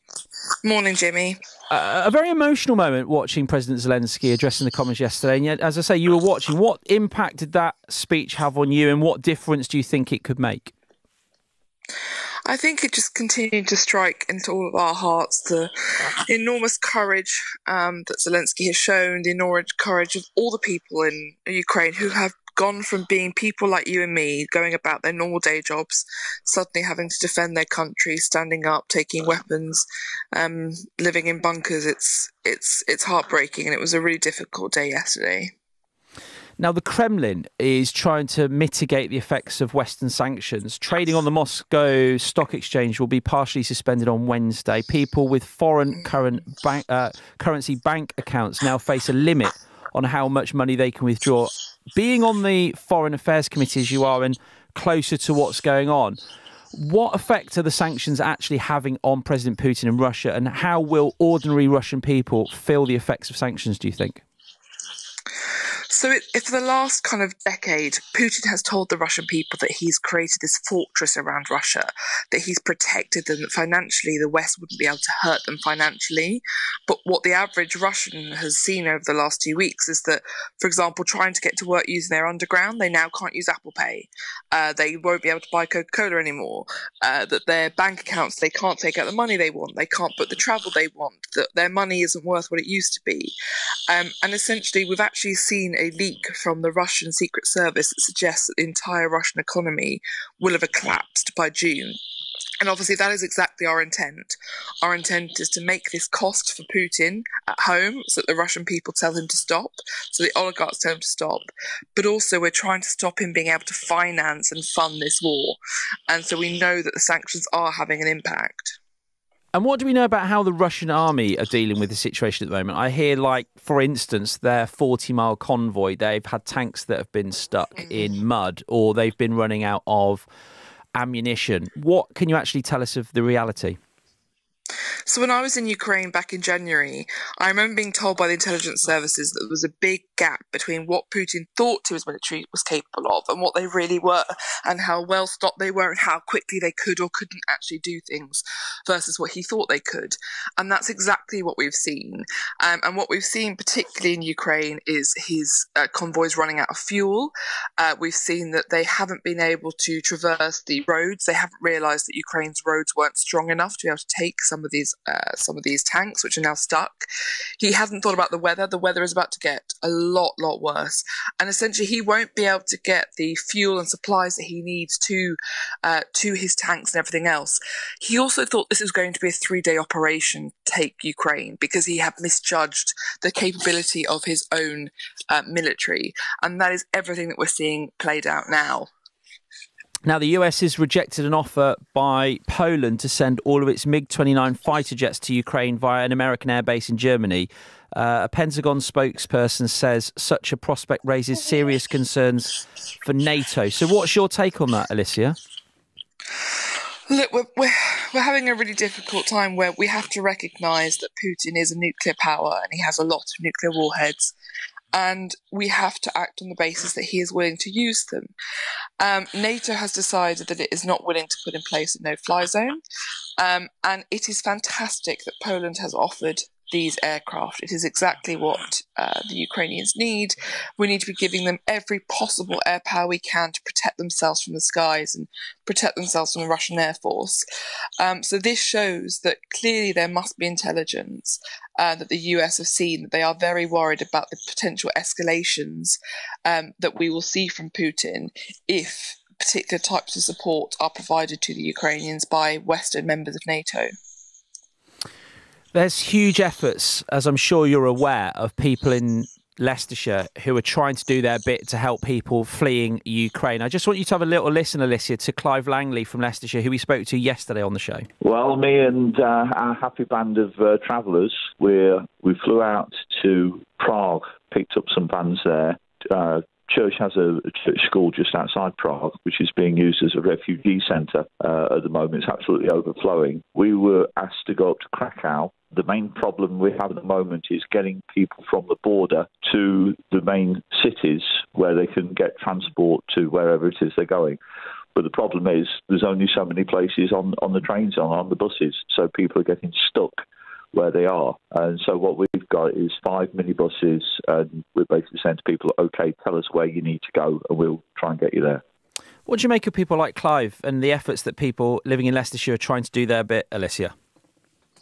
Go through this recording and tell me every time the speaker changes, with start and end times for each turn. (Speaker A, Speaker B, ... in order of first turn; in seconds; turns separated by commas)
Speaker A: 0.6-1.4, Speaker B: 1.7-10.7, Speaker A: 12.4-15.7, Speaker A: 16.3-35.5, Speaker B: 36.6-56.2, Speaker B: 56.7-64.2, Speaker A: 65.9-93.3, Speaker A: 93.9-102.0, Speaker A: 102.6-118.8, Speaker B: 119.5-130.2, Speaker B: 130.9-133.8, Speaker A: 135.1-167.0, Speaker A: 167.6-188.9, Speaker B: 190.0-205.4, Speaker A: 207.1-214.3, Speaker A: 214.9-218.3, Speaker A: 219.0-222.8, Speaker A: 223.4-237.4, Speaker A: 238.0-253.9, Speaker B: 255.7-268.1, Speaker C: 268.2-294.4, Speaker C: 294.9-300.2, Speaker C: 300.7-308.6, Speaker B: 309.2-313.9